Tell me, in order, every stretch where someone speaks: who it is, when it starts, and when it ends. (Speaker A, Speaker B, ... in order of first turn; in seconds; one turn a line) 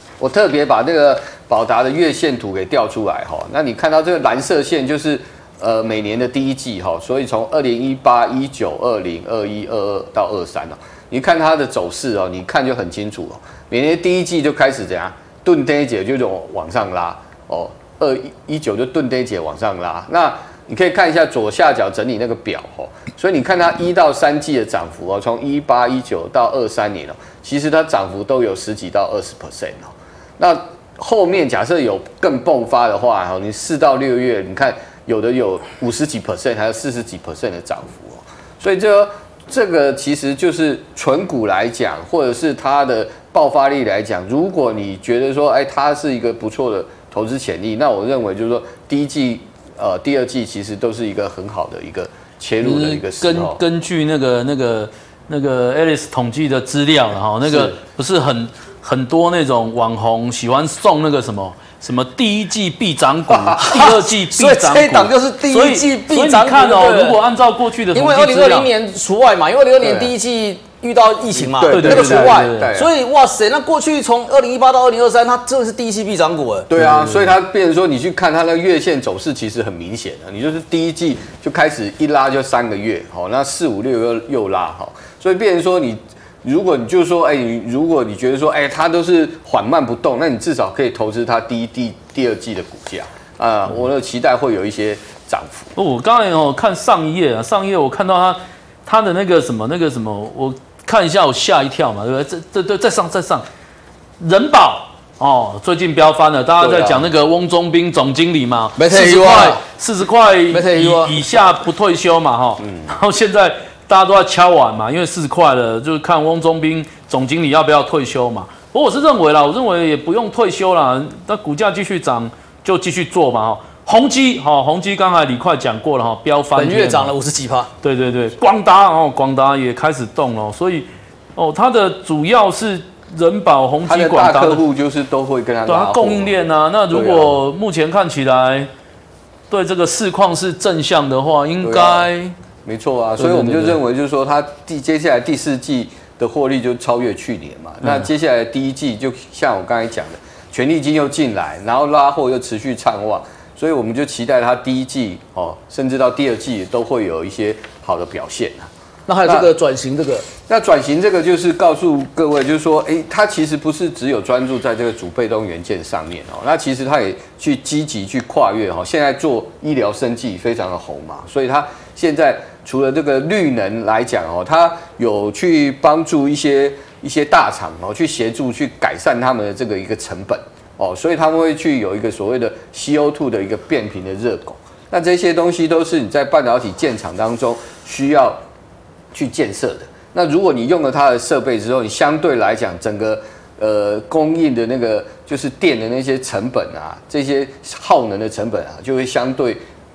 Speaker A: 0.2-53.6
Speaker B: 52.6-68.7
Speaker A: 57.5-57.8
Speaker C: 63.6-67.2
Speaker C: 67.9-76.7
Speaker A: 69.8-70.1
Speaker A: 71.4-72.9
Speaker B: 71.7-72.8
Speaker A: 76.7-95.8
Speaker B: 76.8-77.2
Speaker B: 95.8-103.5
Speaker B: 104.2-127.1
Speaker A: 106.6-107.1
Speaker C: 108.8-109.6
Speaker C: 110.5-111.2
Speaker A: 112.6-112.9
Speaker C: 126.6-127.7
Speaker B: 127.8-134.6
Speaker A: 133.8-136.3
Speaker B: 135.7-138.7
Speaker A: 136.9-137.4
Speaker B: 139.5-142.3
Speaker A: 141.6-142.1
Speaker A: 142.7-158.7
Speaker B: 143.2-143.8
Speaker C: 159.1-160.3
Speaker A: 159.2-159.5
Speaker A: 160.4-188.4
Speaker A: 189.1-199.6